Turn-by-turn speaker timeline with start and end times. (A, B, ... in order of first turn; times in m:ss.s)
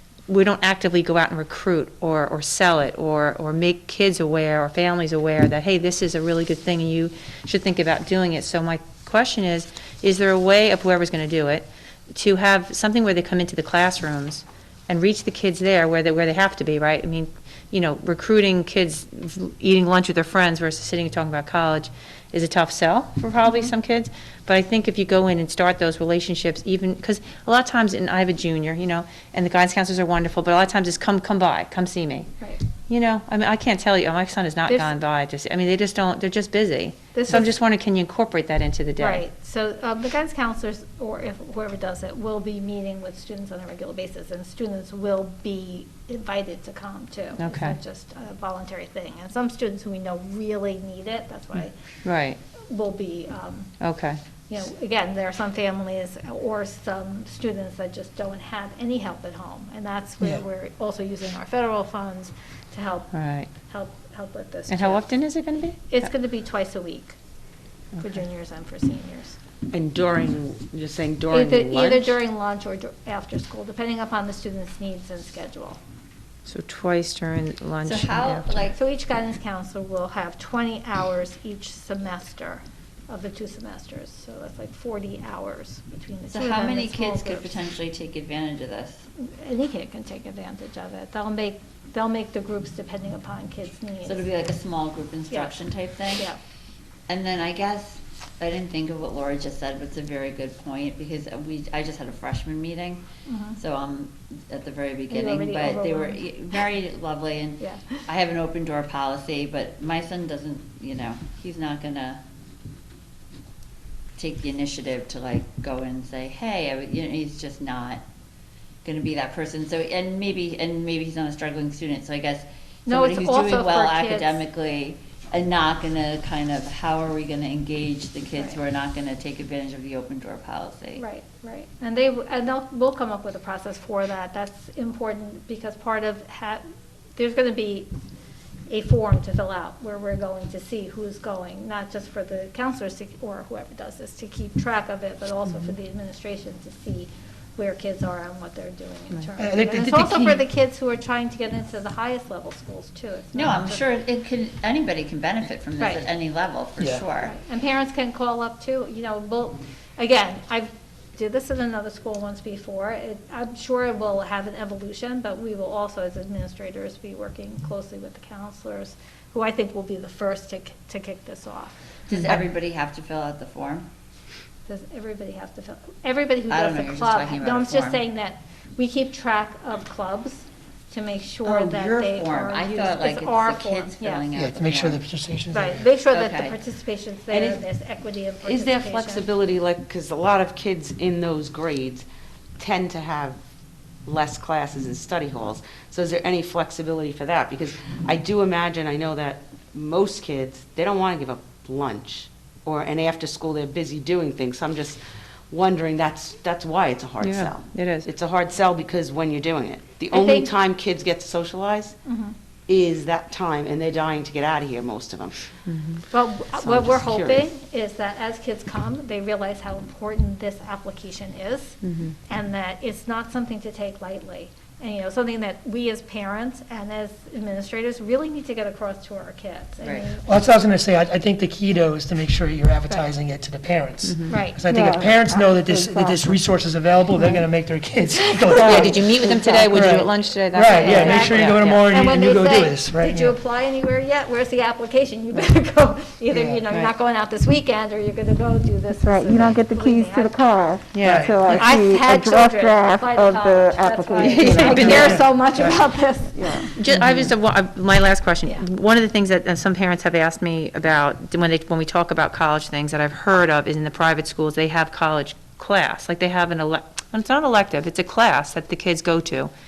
0:00.3-0:32.3 A
0:32.9-0:39.2 A
0:37.1-0:37.5 B
0:39.0-0:51.7 B
0:47.4-0:47.8 A
0:51.6-0:52.4 A
0:52.7-0:53.7 B
0:53.8-0:54.2 A
0:54.5-1:05.1 B
1:03.1-1:03.5 A
1:04.7-1:06.0 A
1:05.9-1:07.2 B
1:08.0-1:09.4 B
1:09.7-1:12.2 C
1:11.3-1:15.8 B
1:16.4-1:18.6 A
1:17.8-1:18.8 D
1:18.7-1:27.5 B
1:26.3-1:29.0 D
1:29.2-1:34.3 B
1:34.0-1:36.3 D
1:35.3-1:35.5 B
1:36.1-1:36.4 B
1:37.1-1:43.0 D
1:43.3-1:43.6 B
1:43.6-1:52.2 D
1:45.1-1:46.7 B
1:47.6-1:48.0 B
1:54.2-1:58.0 D
1:58.8-2:11.0 D
2:02.9-2:04.4 B
2:10.9-2:16.6 B
2:17.2-2:17.9 B
2:18.7-2:33.9 B
2:29.4-2:30.4 E
2:33.3-2:37.3 D
2:36.8-2:37.0 E
2:37.2-2:51.8 B
2:52.1-2:53.9 D
2:52.1-2:52.5 A
2:54.7-3:04.2 B
2:56.5-2:58.0 D
3:01.4-3:05.0 D
3:04.3-3:05.8 E
3:05.5-3:09.2 B
3:06.1-3:06.6 D
3:07.3-3:07.6 C
3:08.4-3:12.0 C
3:12.6-3:13.4 C
3:14.0-3:32.0 C
3:27.2-3:28.1 A
3:30.1-3:30.5 B
3:32.0-3:32.3 B
3:32.7-3:35.4 C
3:35.7-3:36.0 A
3:36.1-3:50.3 B
3:36.5-3:37.5 C
3:41.8-3:42.1 A
3:49.8-3:50.1 D
3:50.2-3:59.2 E
3:54.0-3:54.4 A
3:54.3-3:54.7 B
3:55.6-3:56.3 F
3:58.5-3:59.0 F
3:58.6-4:01.9 A
3:59.7-4:03.4 E
4:00.6-4:10.4 B
4:06.3-4:06.6 E
4:09.0-4:14.9 F
4:10.9-4:11.7 A
4:11.0-4:11.6 E
4:11.5-4:16.7 B
4:14.2-4:15.2 A
4:14.5-4:15.8 E
4:16.8-4:29.5 A